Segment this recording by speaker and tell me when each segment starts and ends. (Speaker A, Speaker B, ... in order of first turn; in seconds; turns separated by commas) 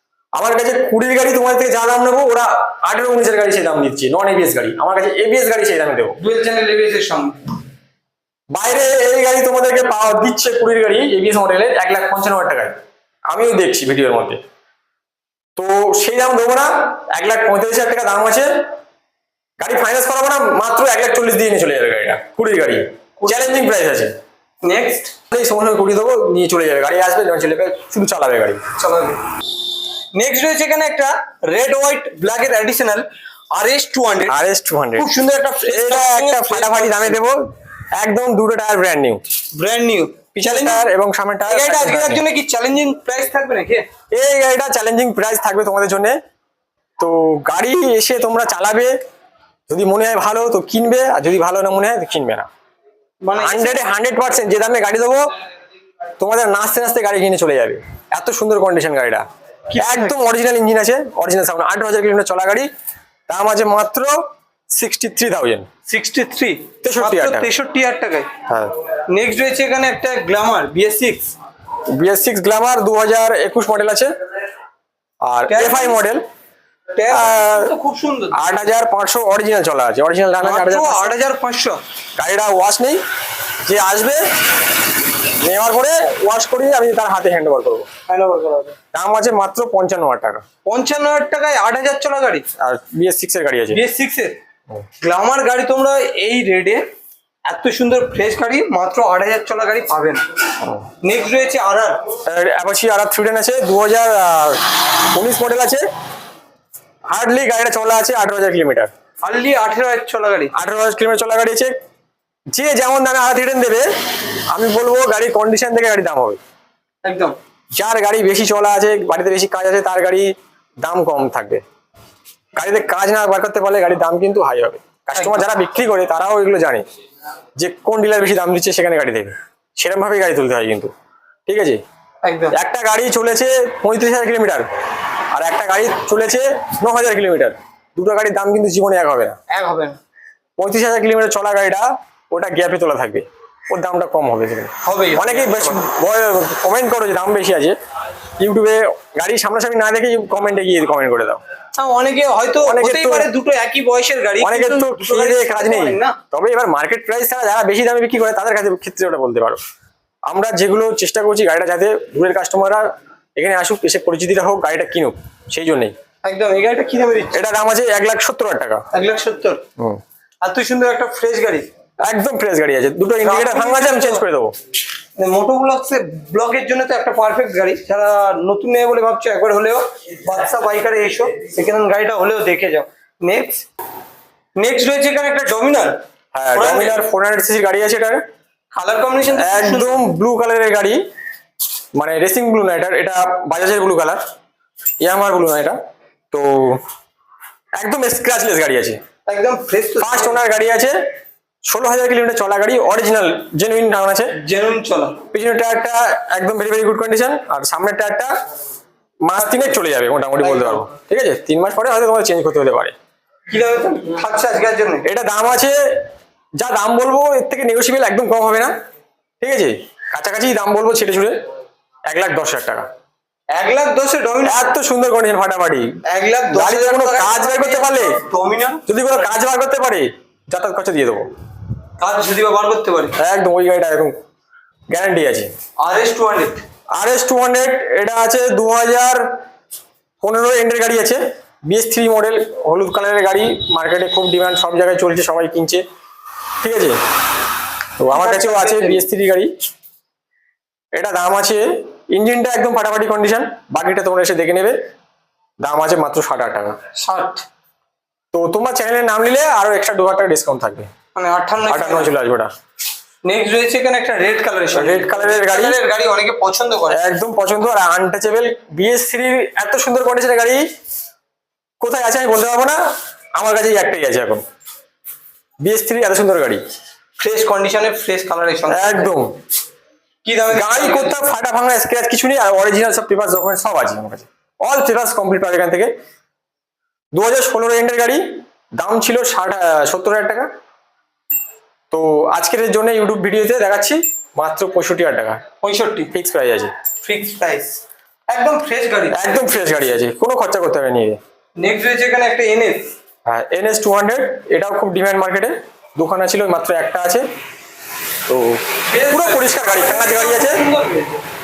Speaker A: 0.3-6.2, Speaker B: 6.2-7.4, Speaker A: 8.5-12.8, Speaker A: 13.3-14.4, Speaker A: 15.6-18.6, Speaker A: 19.6-24.1, Speaker B: 23.2-23.6, Speaker B: 24.6-25.1, Speaker A: 25.3-28.6, Speaker B: 28.8-29.2, Speaker B: 30.1-34.4, Speaker A: 34.3-35.1, Speaker B: 35.0-37.2, Speaker A: 35.6-39.2, Speaker B: 39.6-40.8, Speaker A: 40.4-42.2, Speaker B: 41.5-43.9, Speaker A: 44.1-46.2, Speaker A: 47.0-48.9, Speaker A: 49.7-52.5, Speaker B: 53.2-53.8, Speaker A: 53.4-55.2, Speaker A: 56.2-59.2, Speaker B: 59.7-60.1, Speaker A: 59.8-62.7, Speaker A: 63.3-64.1, Speaker A: 64.7-65.7, Speaker B: 65.9-68.4, Speaker A: 66.8-67.5, Speaker A: 68.5-68.7, Speaker B: 69.1-71.3, Speaker A: 71.9-74.1, Speaker A: 75.2-76.2, Speaker B: 75.5-76.0, Speaker B: 77.0-78.5, Speaker A: 77.1-77.7, Speaker A: 78.3-81.1, Speaker B: 80.4-81.8, Speaker A: 82.2-83.0, Speaker A: 83.7-84.2, Speaker A: 85.4-87.9, Speaker B: 88.1-88.8, Speaker A: 88.9-90.4, Speaker B: 90.7-92.5, Speaker A: 92.6-93.8, Speaker B: 93.7-94.4, Speaker B: 95.0-96.8, Speaker B: 97.5-100.2, Speaker B: 101.0-102.0, Speaker A: 102.2-105.8, Speaker A: 107.1-108.9, Speaker B: 109.2-110.5, Speaker A: 110.5-111.7, Speaker A: 112.5-113.8, Speaker A: 114.5-116.4, Speaker B: 117.0-117.4, Speaker A: 117.8-121.6, Speaker A: 122.6-126.8, Speaker B: 125.2-125.5, Speaker A: 127.6-130.9, Speaker A: 131.5-131.8, Speaker B: 132.2-132.6, Speaker A: 132.5-134.7, Speaker A: 135.3-139.4, Speaker B: 139.5-140.0, Speaker A: 140.6-147.8, Speaker B: 144.8-145.8, Speaker A: 148.4-151.4, Speaker B: 151.7-156.2, Speaker A: 152.6-153.3, Speaker A: 154.4-159.6, Speaker A: 160.3-165.9, Speaker B: 166.2-167.4, Speaker A: 167.3-168.8, Speaker B: 168.9-169.6, Speaker B: 170.4-171.7, Speaker A: 172.0-174.5, Speaker B: 173.2-174.2, Speaker B: 175.2-183.7, Speaker B: 184.6-186.0, Speaker A: 186.3-188.2, Speaker B: 186.5-187.0, Speaker B: 188.7-190.0, Speaker A: 189.3-191.0, Speaker A: 192.0-194.2, Speaker A: 195.0-195.8, Speaker A: 196.3-196.8, Speaker A: 197.8-199.0, Speaker B: 199.3-200.4, Speaker A: 200.0-201.0, Speaker A: 201.7-204.3, Speaker B: 204.4-205.2, Speaker A: 205.3-208.3, Speaker A: 209.3-212.9, Speaker B: 210.4-210.8, Speaker B: 213.5-215.1, Speaker A: 215.1-215.8, Speaker A: 216.6-218.7, Speaker A: 219.4-221.3, Speaker A: 222.1-222.9, Speaker B: 223.5-224.7, Speaker A: 224.4-226.0, Speaker B: 226.1-228.8, Speaker A: 226.5-228.2, Speaker A: 228.9-231.2, Speaker B: 232.0-233.2, Speaker A: 233.2-234.1, Speaker A: 234.9-235.5, Speaker B: 235.8-236.6, Speaker A: 236.9-239.3, Speaker A: 240.2-245.8, Speaker A: 246.6-247.0, Speaker A: 248.0-249.5, Speaker B: 248.1-249.0, Speaker A: 250.9-254.8, Speaker A: 255.6-256.8, Speaker B: 257.0-257.4, Speaker A: 258.3-260.9, Speaker B: 261.1-262.1, Speaker A: 261.7-262.5, Speaker B: 263.2-267.0, Speaker A: 264.7-265.8, Speaker A: 266.9-270.6, Speaker A: 271.8-272.8, Speaker A: 273.4-274.4, Speaker A: 275.6-276.6, Speaker B: 277.2-279.1, Speaker A: 278.7-279.4, Speaker B: 280.2-281.2, Speaker A: 280.5-285.9, Speaker A: 287.1-290.5, Speaker A: 291.9-295.4, Speaker B: 295.6-296.1, Speaker A: 296.1-296.7, Speaker B: 297.0-299.5, Speaker A: 299.1-301.2, Speaker B: 301.6-302.9, Speaker A: 303.3-307.2, Speaker A: 308.3-310.6, Speaker B: 308.9-311.2